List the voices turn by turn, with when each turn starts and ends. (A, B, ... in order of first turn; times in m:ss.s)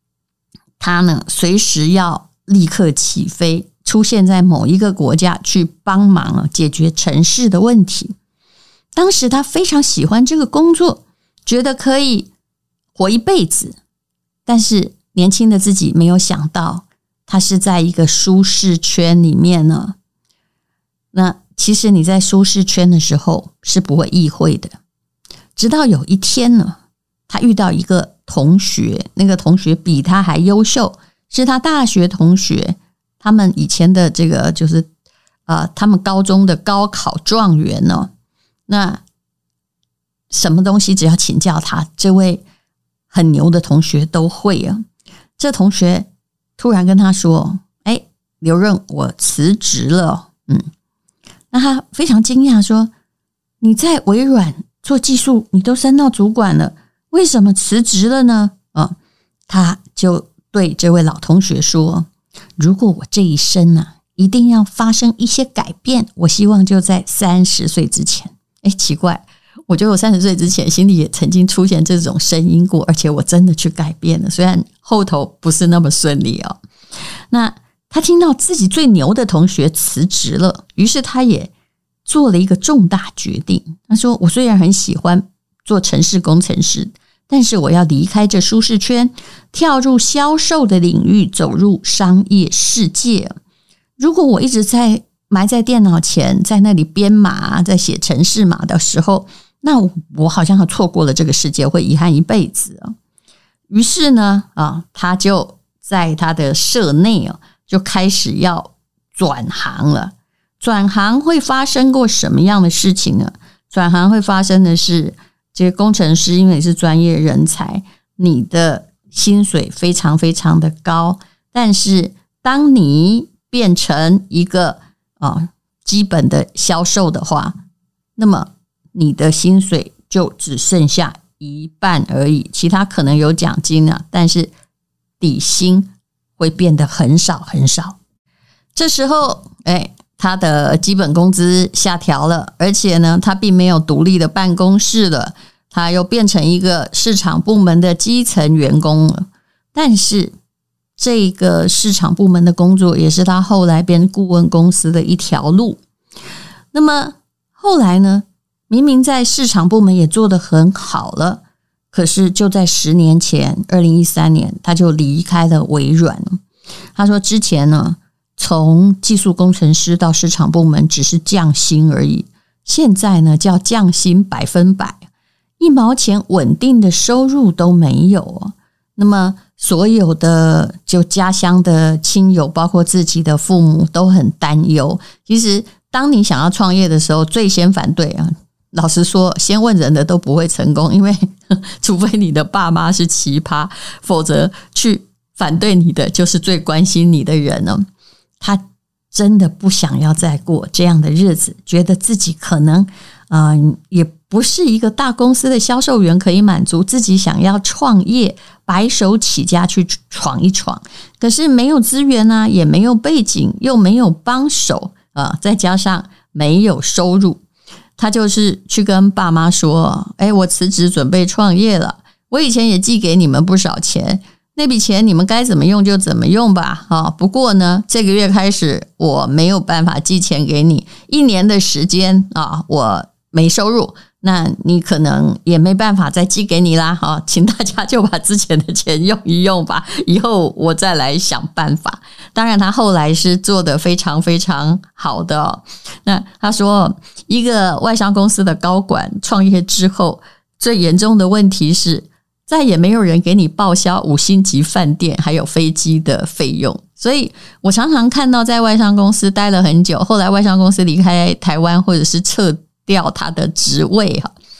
0:00.8-0:08.2 A
0:08.9-0:12.3 A
0:12.9-0:13.8 A
0:14.4-0:20.0 A
0:21.1-0:24.8 A
0:25.6-0:34.9 A
0:35.5-0:38.1 A
0:38.7-0:39.0 A
0:40.3-0:42.4 A
0:43.1-0:44.8 A
0:45.4-0:50.7 A
0:51.5-0:52.9 A
0:53.6-0:59.0 A
0:59.5-1:16.6 A
1:17.3-1:21.5 A
1:22.0-1:33.3 A
1:34.0-1:42.9 A
1:43.7-2:07.5 A
2:08.2-2:14.5 A
2:15.2-2:18.0 A
2:18.7-2:30.3 A
2:31.0-2:35.8 A
2:36.7-2:46.4 A
2:47.0-2:55.0 A
2:55.6-3:17.9 A
3:18.4-3:37.4 A
3:38.0-4:24.3 A